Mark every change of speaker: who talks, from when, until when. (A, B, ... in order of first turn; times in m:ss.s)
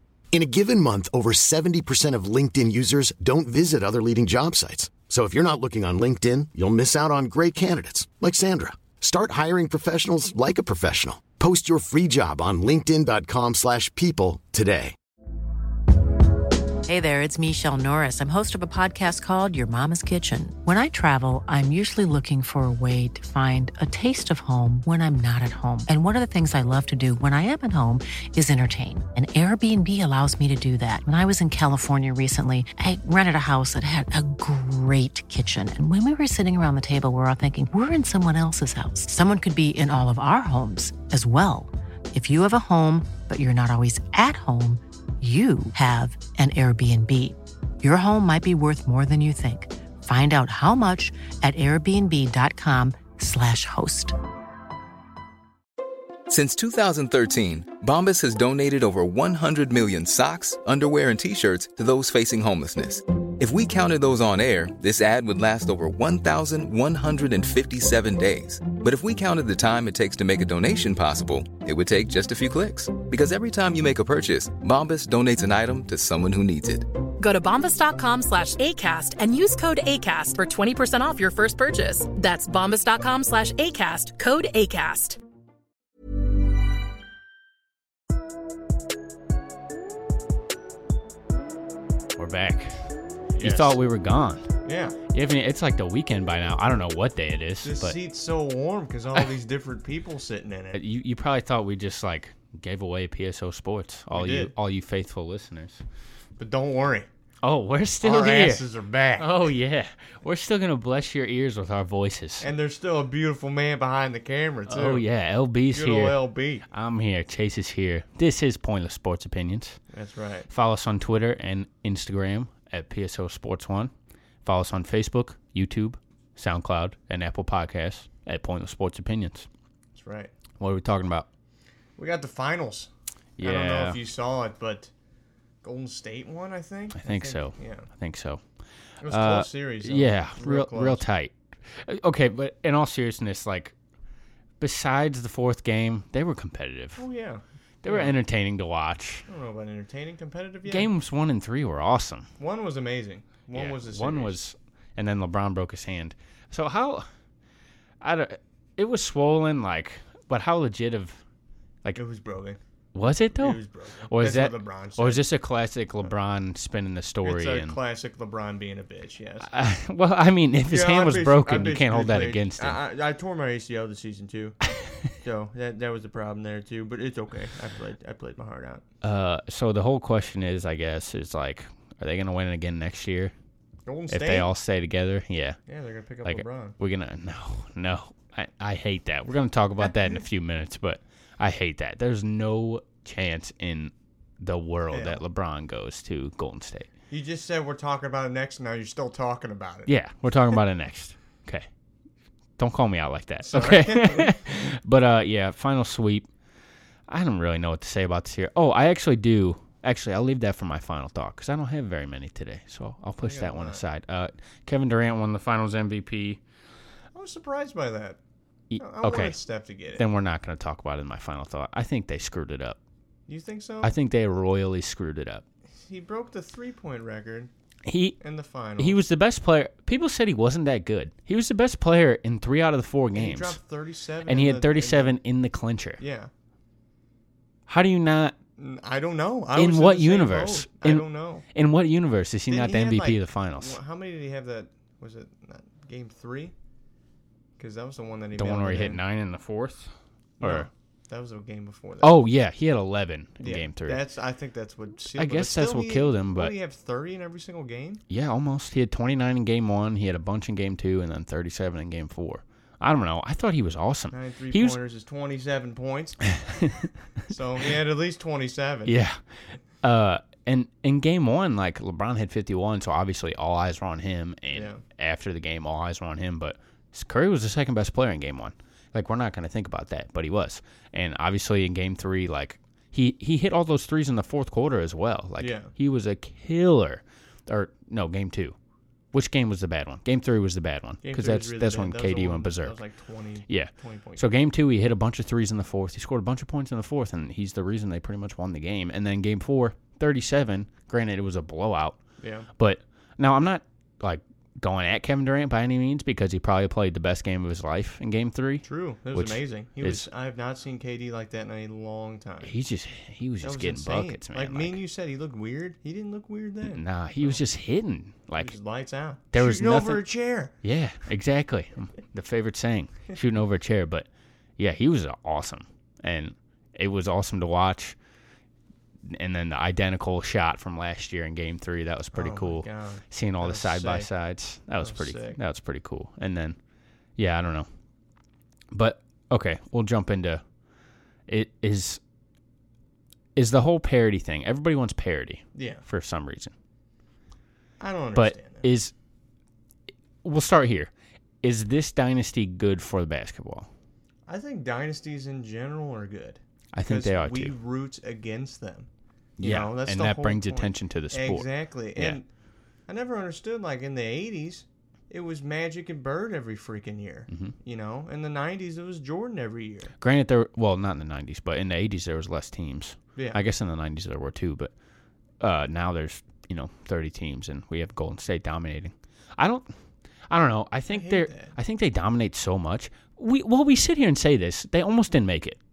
0:00.3-0:15.0 A
0:16.8-0:54.2 B
0:56.3-1:16.9 C
1:17.2-1:25.2 D
1:32.2-1:32.8 E
1:33.4-1:33.8 F
1:33.4-1:34.5 E
1:34.6-1:35.0 F
1:35.1-1:38.0 E
1:37.6-1:40.8 F
1:40.7-1:45.8 E
1:44.1-1:44.5 F
1:46.4-1:47.1 F
1:47.4-1:48.7 E
1:48.0-1:49.3 F
1:49.2-1:52.5 E
1:52.4-1:55.0 F
1:54.7-1:59.8 E
1:55.7-1:56.7 F
1:59.9-2:00.5 F
2:00.5-2:03.9 E
2:04.4-2:09.5 E
2:10.0-2:10.3 F
2:10.6-2:11.3 E
2:12.0-2:14.9 F
2:13.4-2:14.0 E
2:15.6-2:17.9 F
2:16.9-2:18.4 E
2:19.0-2:21.1 F
2:19.1-2:23.7 E
2:24.6-2:27.0 E
2:27.0-2:28.2 F
2:27.8-2:29.2 E
2:29.3-2:30.9 F
2:30.6-2:32.3 E
2:32.4-2:34.4 F
2:33.5-2:37.1 E
2:38.0-2:41.2 E
2:42.0-2:42.6 F
2:42.9-2:47.8 E
2:43.3-2:45.2 F
2:47.2-2:49.5 F
2:49.4-2:52.8 E
2:50.7-2:54.6 F
2:55.2-2:58.8 F
2:59.0-3:03.3 E
3:03.9-3:04.5 F
3:04.1-3:05.6 E
3:05.7-3:06.8 F
3:06.2-3:16.9 E
3:14.9-3:15.2 F
3:17.1-3:19.9 F
3:19.9-3:21.7 E
3:22.6-3:26.3 E
3:23.4-3:24.4 F
3:27.1-3:36.4 E
3:33.2-3:33.8 F
3:37.2-3:38.2 F
3:38.7-3:39.4 E
3:38.8-3:40.0 F
3:40.0-3:42.8 E
3:43.3-3:43.9 F
3:43.8-3:45.4 E
3:45.8-3:47.5 F
3:47.9-3:48.2 E
3:48.2-3:49.0 F
3:48.8-3:53.6 E
3:53.2-3:55.1 F
3:54.3-3:56.0 E
3:56.0-3:56.3 F
3:57.7-3:58.4 E
3:58.6-4:01.4 F
3:59.6-4:03.8 E
4:02.5-4:06.5 F
4:07.6-4:09.0 F
4:08.4-4:10.7 E
4:10.4-4:12.2 F
4:12.0-4:14.0 E
4:13.4-4:18.0 F
4:15.1-4:16.5 E
4:18.1-4:24.8 E
4:24.1-4:26.3 F
4:26.3-4:26.8 E
4:27.3-4:28.9 F
4:28.9-4:29.2 E
4:29.8-4:48.6 E
4:34.5-4:34.8 F
4:45.4-4:45.7 F
4:49.1-4:52.8 E
4:51.0-4:54.3 F
4:53.5-5:02.0 E
5:02.2-5:02.5 F
5:02.6-5:10.1 E
5:08.6-5:12.5 F
5:12.4-5:14.8 E
5:13.4-5:17.4 F
5:16.6-5:18.6 E
5:18.4-5:20.6 F
5:19.3-5:20.0 E
5:20.6-5:24.1 E
5:24.6-5:28.0 E
5:29.1-5:36.6 E
5:32.1-5:34.1 F
5:34.8-5:35.4 F
5:37.2-5:37.7 E
5:38.7-5:40.4 E
5:41.3-5:42.0 E
5:43.4-5:46.5 E
5:45.6-5:45.8 F
5:47.8-5:48.7 F
5:48.2-5:48.9 E
5:50.2-5:50.9 E
5:51.4-5:53.7 E
5:54.3-6:02.3 F
5:56.7-5:57.5 E
5:59.4-6:02.2 E
6:02.9-6:09.9 F
6:07.3-6:07.6 E
6:10.0-6:14.7 E
6:15.4-6:19.7 E
6:20.3-6:25.6 E
6:20.9-6:21.6 F